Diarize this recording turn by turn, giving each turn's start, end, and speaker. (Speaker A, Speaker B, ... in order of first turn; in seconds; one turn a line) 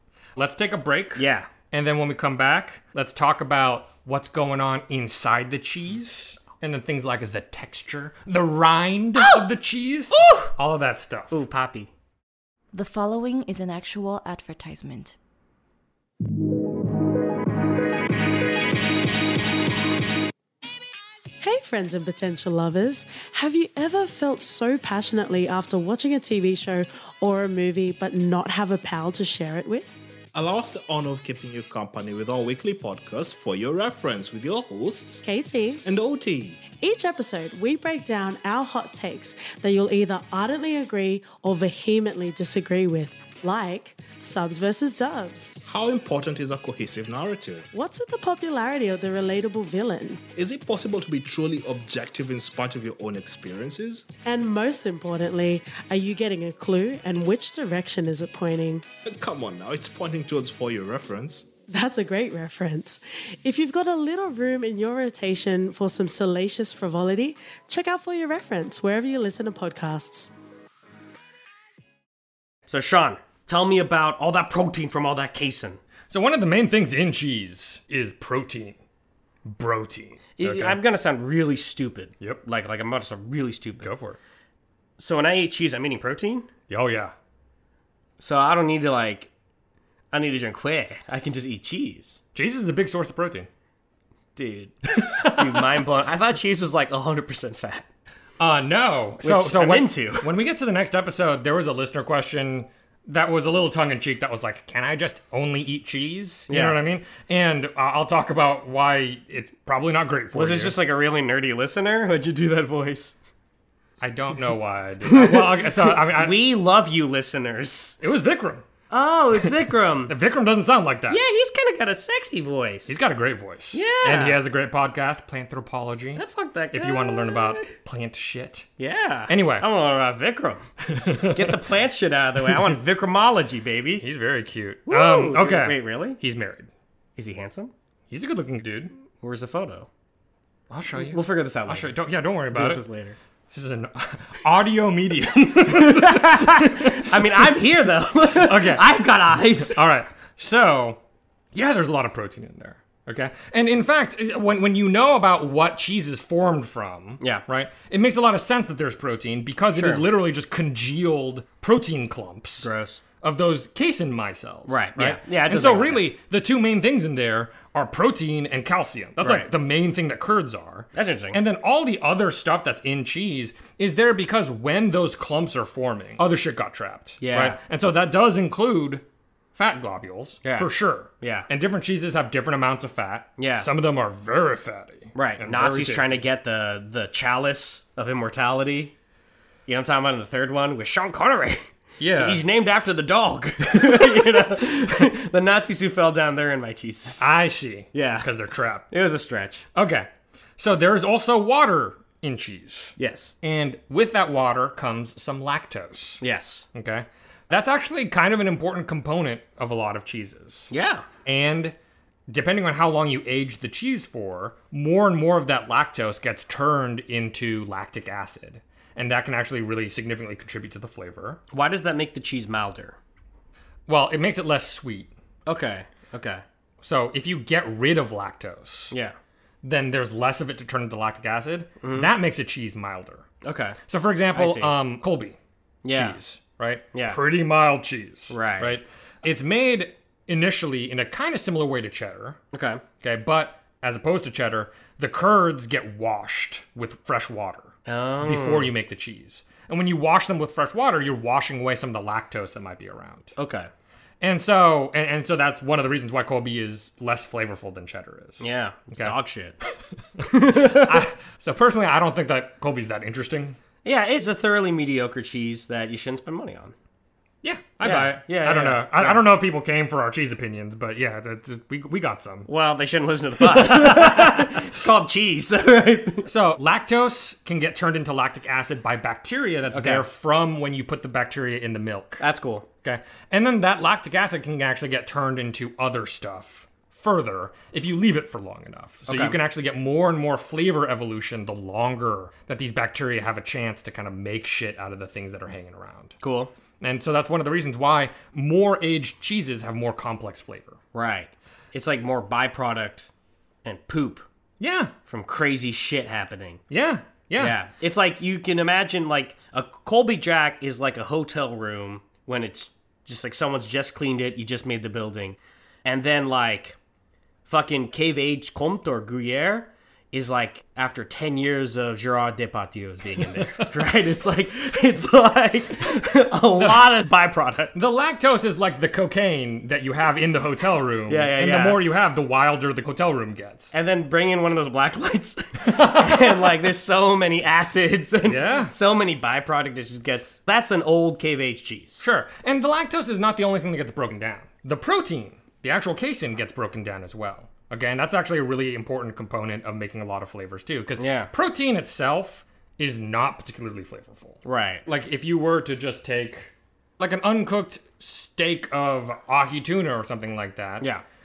Speaker A: 0.3-11.4
Speaker B: 1.1-1.5
Speaker B: 9.2-9.4
Speaker B: 10.1-10.5
Speaker B: 11.3-11.9
Speaker C: 12.7-15.2
Speaker D: 21.4-30.0
Speaker E: 30.3-35.2
Speaker D: 35.2-35.8
Speaker E: 35.8-36.6
Speaker D: 36.6-45.6
Speaker E: 45.6-47.7
Speaker D: 47.7-50.2
Speaker E: 50.4-54.1
Speaker D: 54.2-58.8
Speaker E: 59.0-61.5
Speaker D: 61.7-70.3
Speaker B: 72.7-75.8
Speaker A: 76.1-78.8
Speaker A: 79.4-80.8
Speaker B: 80.4-83.9
Speaker A: 83.8-84.2
Speaker B: 85.0-86.5
Speaker A: 86.7-87.1
Speaker B: 88.2-89.3
Speaker B: 90.1-92.2
Speaker A: 92.3-93.5
Speaker B: 94.3-97.9
Speaker A: 94.9-95.8
Speaker A: 98.4-110.8
Speaker B: 99.2-100.3
Speaker B: 106.5-106.8
Speaker B: 110.3-113.2
Speaker A: 114.0-116.4
Speaker B: 115.0-118.0
Speaker A: 118.0-118.6
Speaker B: 118.9-120.1
Speaker A: 119.3-121.2
Speaker B: 121.1-123.0
Speaker A: 122.8-128.7
Speaker B: 123.7-124.4
Speaker B: 126.2-127.7
Speaker B: 128.8-130.6
Speaker A: 129.3-129.7
Speaker A: 130.8-131.7
Speaker B: 131.2-134.0
Speaker A: 132.5-132.8
Speaker A: 134.0-136.7
Speaker B: 134.9-136.2
Speaker B: 137.2-137.7
Speaker A: 138.1-138.9
Speaker B: 139.2-139.9
Speaker A: 140.7-142.8
Speaker B: 140.9-141.9
Speaker B: 142.5-143.2
Speaker A: 143.5-147.7
Speaker B: 145.7-149.8
Speaker A: 148.2-151.0
Speaker A: 151.5-162.7
Speaker B: 159.8-160.0
Speaker B: 162.6-163.0
Speaker A: 163.2-179.0
Speaker B: 164.7-166.1
Speaker B: 169.2-169.5
Speaker B: 170.9-171.4
Speaker B: 177.2-177.6
Speaker A: 179.5-186.3
Speaker B: 180.4-180.7
Speaker B: 181.2-181.5
Speaker B: 183.4-183.7
Speaker B: 185.1-188.9
Speaker B: 189.7-197.3
Speaker A: 192.0-192.4
Speaker A: 193.7-194.5
Speaker A: 197.2-198.9
Speaker B: 197.9-198.3
Speaker B: 198.9-199.6
Speaker A: 199.7-206.2
Speaker B: 203.0-203.3
Speaker B: 206.2-206.7
Speaker A: 206.7-210.7
Speaker B: 210.7-211.1
Speaker A: 211.2-211.8
Speaker A: 212.3-221.4
Speaker B: 221.5-223.0
Speaker A: 223.9-225.1
Speaker B: 225.4-226.4
Speaker A: 226.8-228.9
Speaker A: 229.6-233.2
Speaker B: 231.8-232.1
Speaker B: 233.4-233.8
Speaker A: 233.9-235.4
Speaker B: 234.3-234.8
Speaker B: 235.8-236.2
Speaker A: 235.9-242.4
Speaker B: 236.9-237.2
Speaker B: 238.3-238.8
Speaker B: 242.5-242.8
Speaker A: 243.0-253.3
Speaker B: 247.8-248.7
Speaker B: 253.3-253.7
Speaker A: 254.2-259.1
Speaker B: 258.4-259.6
Speaker A: 260.2-263.6
Speaker B: 260.2-261.0
Speaker B: 263.8-266.7
Speaker A: 267.4-272.5
Speaker B: 267.8-269.2
Speaker B: 272.5-276.3
Speaker A: 273.4-274.8
Speaker A: 276.2-282.2
Speaker B: 279.7-280.0
Speaker B: 282.2-282.6
Speaker A: 282.8-296.1
Speaker B: 289.1-289.4
Speaker B: 296.2-296.5
Speaker A: 296.8-300.8
Speaker B: 300.9-303.1
Speaker B: 303.6-304.2
Speaker A: 304.6-304.9
Speaker B: 305.1-306.6
Speaker A: 306.7-307.6
Speaker B: 307.4-316.8
Speaker B: 317.4-327.8
Speaker A: 323.2-323.8
Speaker A: 326.6-326.9
Speaker A: 327.7-333.7
Speaker B: 331.1-331.8
Speaker B: 333.7-342.0
Speaker A: 335.6-336.6
Speaker A: 338.2-338.7
Speaker A: 342.0-360.9
Speaker B: 351.0-351.3
Speaker B: 354.4-354.8